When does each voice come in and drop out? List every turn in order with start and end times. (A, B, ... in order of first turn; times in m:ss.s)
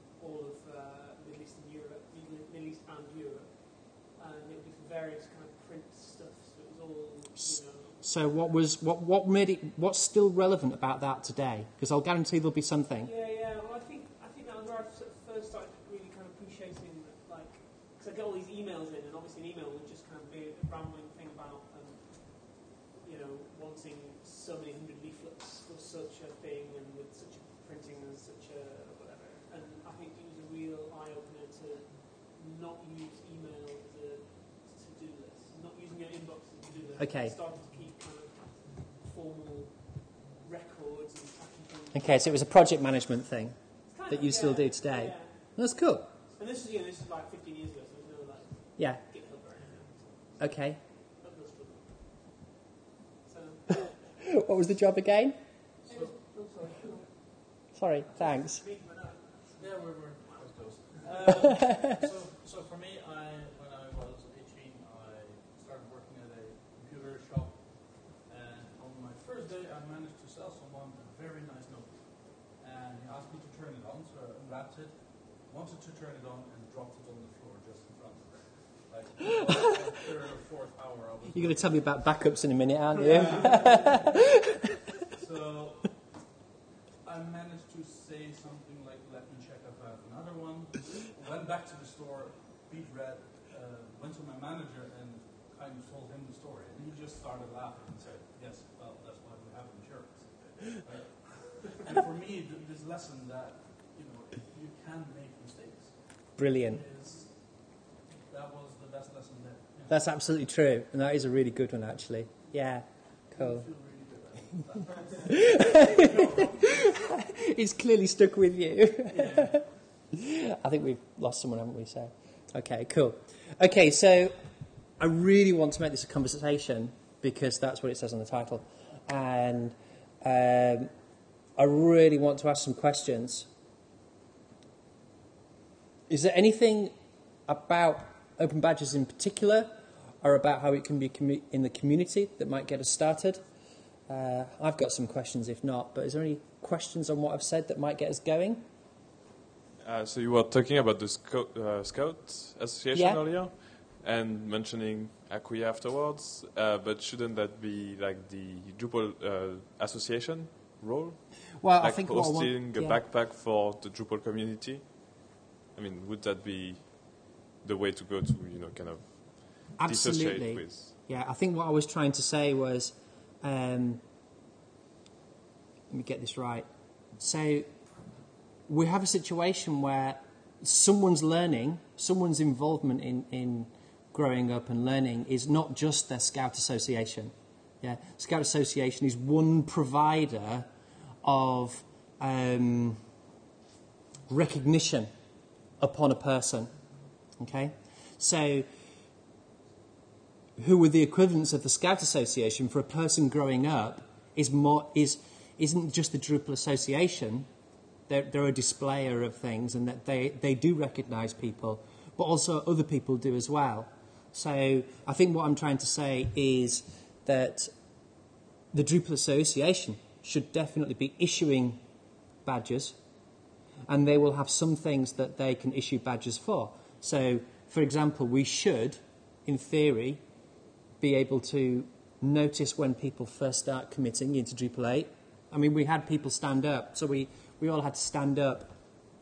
0:00.2-0:08.1 A
0:07.4-0:13.1 B
0:13.0-0:42.3 A
0:37.0-0:37.4 B
0:41.9-0:43.6 B
0:43.9-0:45.5 A
0:44.1-0:46.1 B
0:46.3-0:50.4 A
0:48.8-0:49.0 B
0:50.4-0:50.8 B
0:51.2-0:52.0 A
0:53.2-0:54.0 A
0:53.9-0:55.4 B
0:55.8-0:56.2 C
0:55.9-0:57.3 A
0:57.7-0:58.6 B
0:58.1-1:01.1 A
0:59.6-1:22.1 C
1:21.3-1:24.2 B
1:22.9-1:24.2 C
1:25.0-1:26.0 C
1:27.0-1:50.2 C
1:46.4-1:46.8 B
1:49.9-1:53.7 B
1:53.3-1:57.0 C
1:55.3-2:04.4 B
1:59.1-1:59.7 C
2:05.0-2:10.9 B
2:11.6-2:13.5 B
2:16.1-2:16.9 B
2:17.5-2:23.4 B
2:24.1-2:28.6 B
2:29.8-2:50.9 D
2:32.9-2:33.2 B
2:41.6-2:43.0 B
2:49.8-2:54.0 B
2:55.9-2:56.7 B
2:57.2-2:57.7 B
2:58.7-3:10.7 B
3:11.2-3:13.0 B
3:14.3-3:15.1 B
3:15.8-3:16.7 B
3:17.4-3:18.7 B
3:20.6-3:27.5 B
3:28.1-3:37.7 B
3:38.7-3:41.8 B
3:42.5-3:43.0 B
3:43.9-3:50.2 B
3:51.0-3:58.7 B